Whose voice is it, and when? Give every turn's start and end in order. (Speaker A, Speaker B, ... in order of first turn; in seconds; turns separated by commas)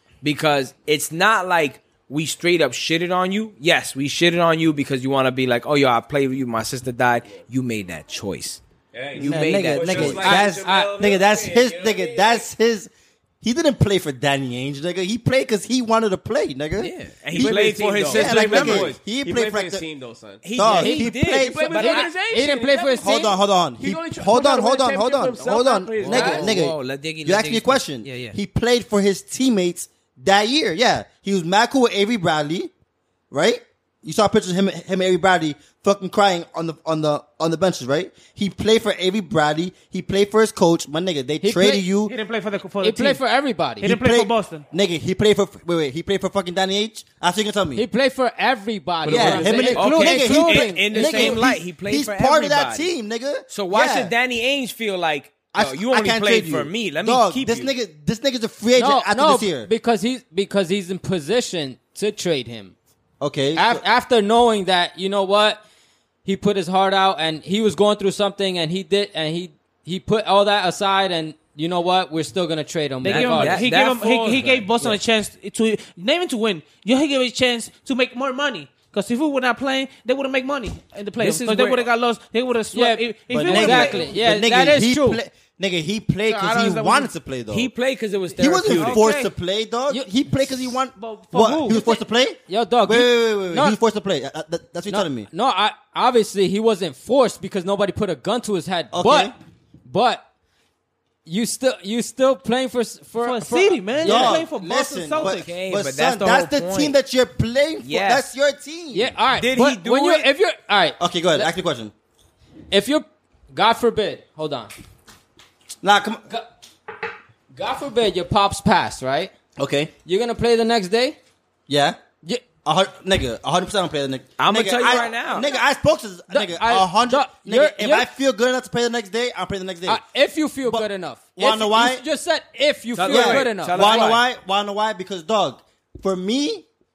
Speaker A: 0.2-8.6, Speaker B: 8.9-12.4, Speaker A: 9.1-10.3, Speaker C: 9.2-12.9, Speaker D: 10.2-10.9, Speaker C: 13.4-19.9, Speaker A: 16.8-19.0, Speaker B: 17.4-26.6, Speaker A: 20.4-22.1, Speaker C: 20.5-22.0, Speaker D: 20.7-21.1, Speaker D: 21.7-23.4, Speaker C: 23.0-32.7, Speaker D: 26.0-26.5, Speaker A: 26.0-28.4, Speaker C: 33.3-42.1, Speaker D: 41.4-41.9, Speaker E: 42.0-43.2, Speaker D: 42.8-43.9, Speaker E: 43.8-44.7, Speaker C: 43.8-47.9, Speaker D: 47.8-51.4, Speaker B: 49.0-49.9, Speaker C: 49.1-54.1, Speaker A: 49.7-52.9, Speaker A: 53.5-57.7, Speaker C: 55.5-59.7, Speaker D: 58.8-62.8, Speaker C: 63.2-63.8, Speaker D: 63.6-65.6, Speaker D: 66.2-73.6, Speaker E: 73.0-84.1, Speaker A: 73.0-74.9, Speaker A: 81.2-81.9, Speaker D: 82.7-85.2, Speaker C: 83.3-87.7, Speaker E: 86.3-87.1, Speaker A: 87.5-89.1, Speaker C: 88.4-95.3, Speaker E: 88.7-89.3, Speaker E: 91.0-92.0, Speaker D: 92.5-93.8, Speaker D: 94.9-99.3, Speaker C: 98.9-99.3, Speaker D: 99.9-100.2, Speaker D: 101.3-104.4, Speaker E: 103.2-105.5, Speaker C: 104.0-109.1, Speaker A: 105.2-107.0, Speaker A: 107.8-108.2, Speaker D: 108.9-111.5, Speaker A: 109.3-110.3, Speaker C: 111.0-111.9, Speaker D: 112.7-114.7, Speaker C: 115.8-116.2, Speaker D: 117.5-119.3, Speaker C: 119.6-119.9, Speaker D: 120.0-121.2, Speaker C: 121.7-122.0, Speaker C: 122.7-130.0, Speaker A: 124.4-125.5, Speaker D: 126.3-128.1, Speaker D: 129.9-134.2, Speaker C: 130.6-132.0, Speaker A: 132.9-134.2, Speaker C: 133.0-136.7